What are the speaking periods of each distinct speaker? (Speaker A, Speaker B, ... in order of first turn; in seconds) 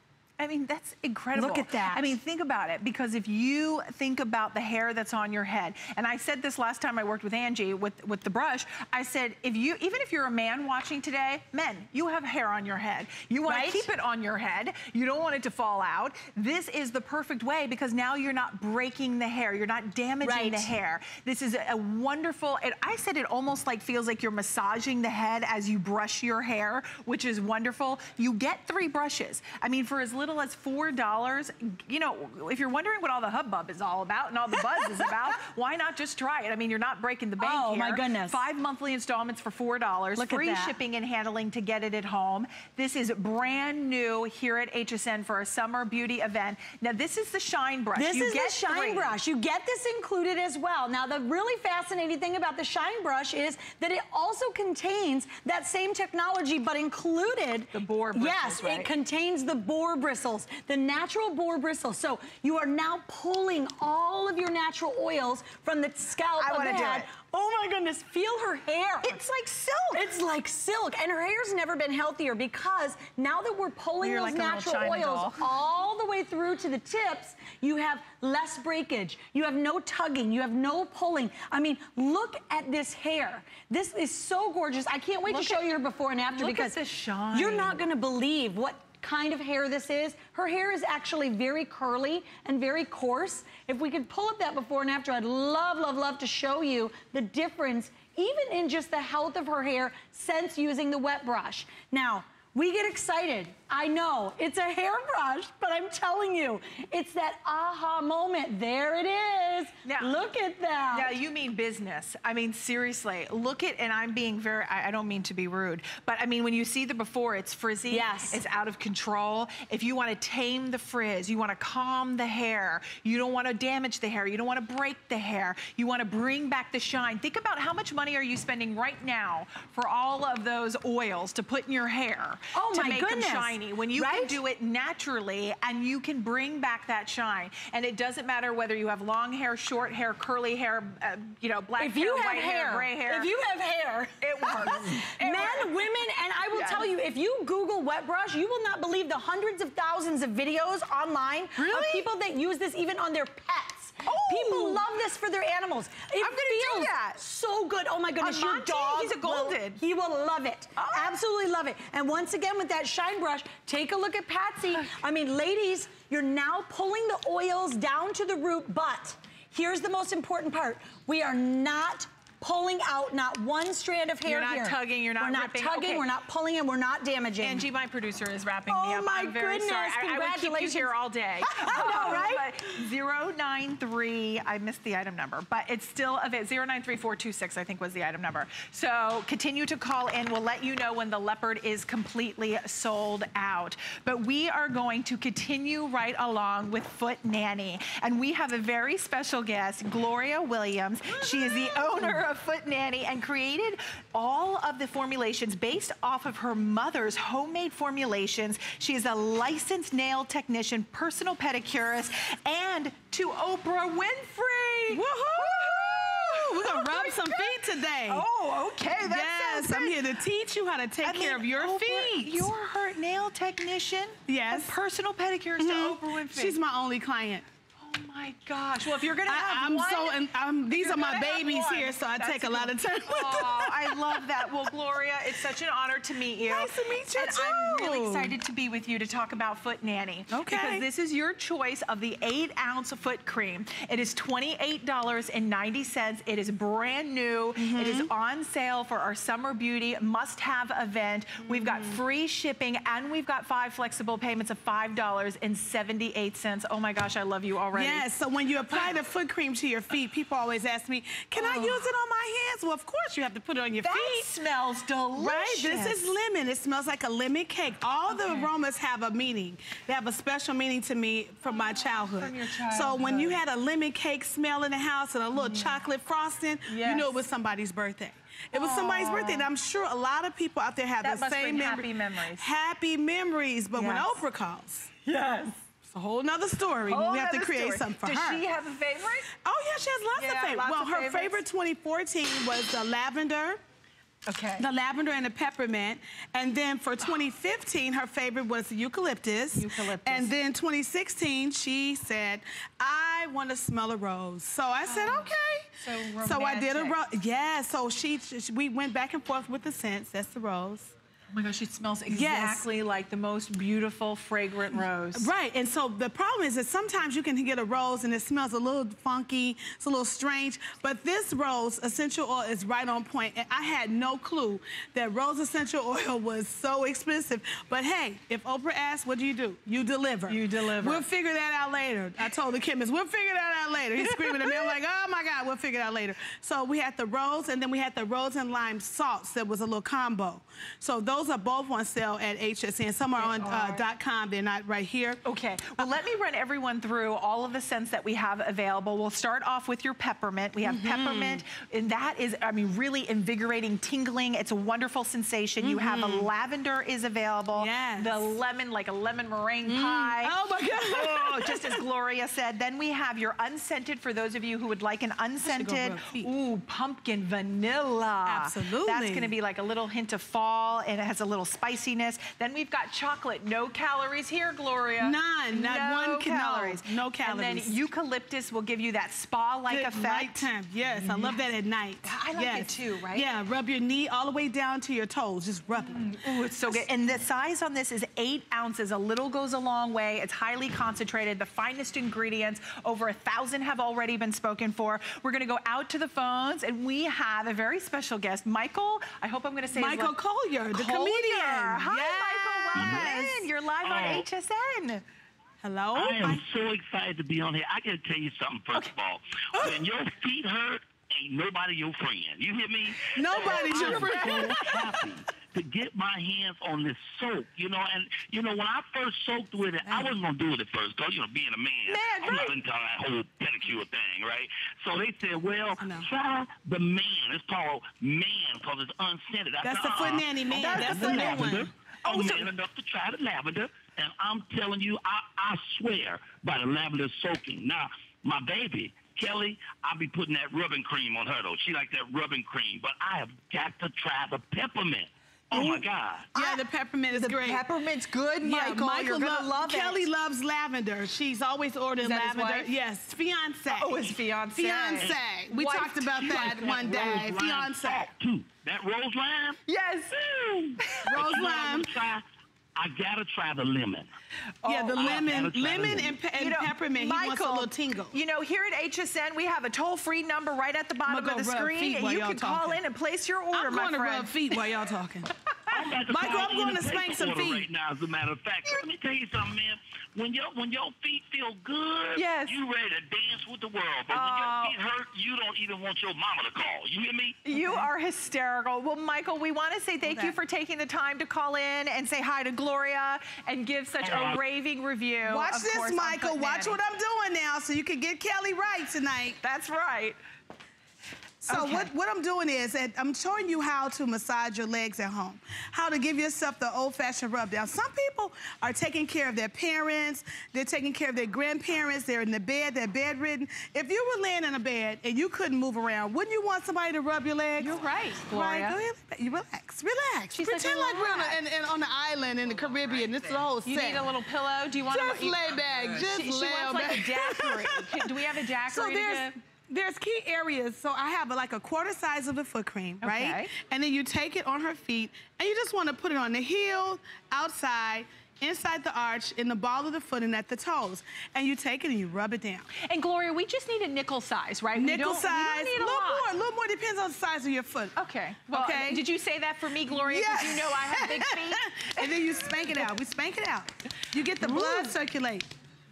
Speaker A: 0.4-49.1, 57.7-58.9, 66.4-67.1, 69.0-70.1, 74.0-75.4, 85.3-85.7, 86.3-87.8, 109.8-110.2, 110.9-143.3, 144.2-145.7, 146.5-146.8, 151.6-152.1, 154.1-154.8, 156.2-157.2, 158.2-159.8, 160.8-161.2, 174.2-176.1, 177.4-220.0, 221.0-226.6, 227.8-258.1, 261.4-261.9, 263.8-266.2, 268.1-268.5, 271.4-273.4, 275.4-275.7, 276.7-277.2, 278.5-279.5, 281.0-282.5, 283.8-284.2, 285.1-285.6, 286.9-289.3, 290.2-291.4, 294.3-294.7, 299.6-300.3, 304.9-307.0, 311.3-315.3, 330.3-331.0, 334.0-334.8, 343.2-343.8, 345.2-381.5, 382.0-383.3, 385.8-400.1, 400.7-405.0, 413.4-414.6, 430.5-431.5, 446.4-446.6, 447.1-450.1, 452.0-452.7, 453.7-457.4, 459.7-460.2, 460.9-461.7, 464.6-474.6, 482.1-482.6, 484.1-484.8, 487.4-496.8, 499.4-500.2, 501.5-501.9, 517.6-518.8, 520.3-521.4, 523.6-529.4, 533.0-533.5, 542.9-546.3, 548.0-552.2, 554.4-554.9
Speaker B: 1.4-2.0, 13.5-13.9, 20.2-20.7, 37.4-38.4, 40.2-40.8, 48.0-69.2, 69.9-86.7, 87.3-111.1, 117.9-118.4, 132.5-134.4, 141.8-144.7, 145.2-177.7, 178.7-180.9, 181.5-182.4
Speaker C: 201.1-202.2, 214.9-218.3, 218.9-222.5, 224.3-224.8, 225.6-227.4, 229.2-234.3, 236.4-238.3, 240.3-240.9, 247.6-248.1, 251.4-252.0, 257.7-264.3, 265.1-284.9, 285.9-288.4, 289.4-293.6, 294.6-305.7, 306.2-310.9, 312.1-312.7, 315.1-345.2, 350.6-351.4, 355.6-356.3, 357.5-358.4, 359.7-361.8, 365.4-366.3, 368.3-369.3, 375.0-377.8, 379.7-386.9, 399.7-403.5, 405.6-406.4, 413.1-415.2, 419.9-420.1, 421.9-422.6, 425.8-426.1, 429.6-432.5, 445.5-447.7, 448.4-458.1, 461.0-461.9, 464.6-468.2, 471.1-472.8, 473.5-477.7, 487.5-487.9, 490.0-490.4, 495.3-499.4, 501.4-524.2, 524.9-542.7, 544.8-548.0, 548.5-549.1, 549.8-555.5
Speaker D: 402.8-403.1, 403.8-404.3, 405.9-446.3, 456.2-459.6, 460.1-462.2, 462.8-464.1, 465.0-466.2, 475.7-487.5, 494.0-494.4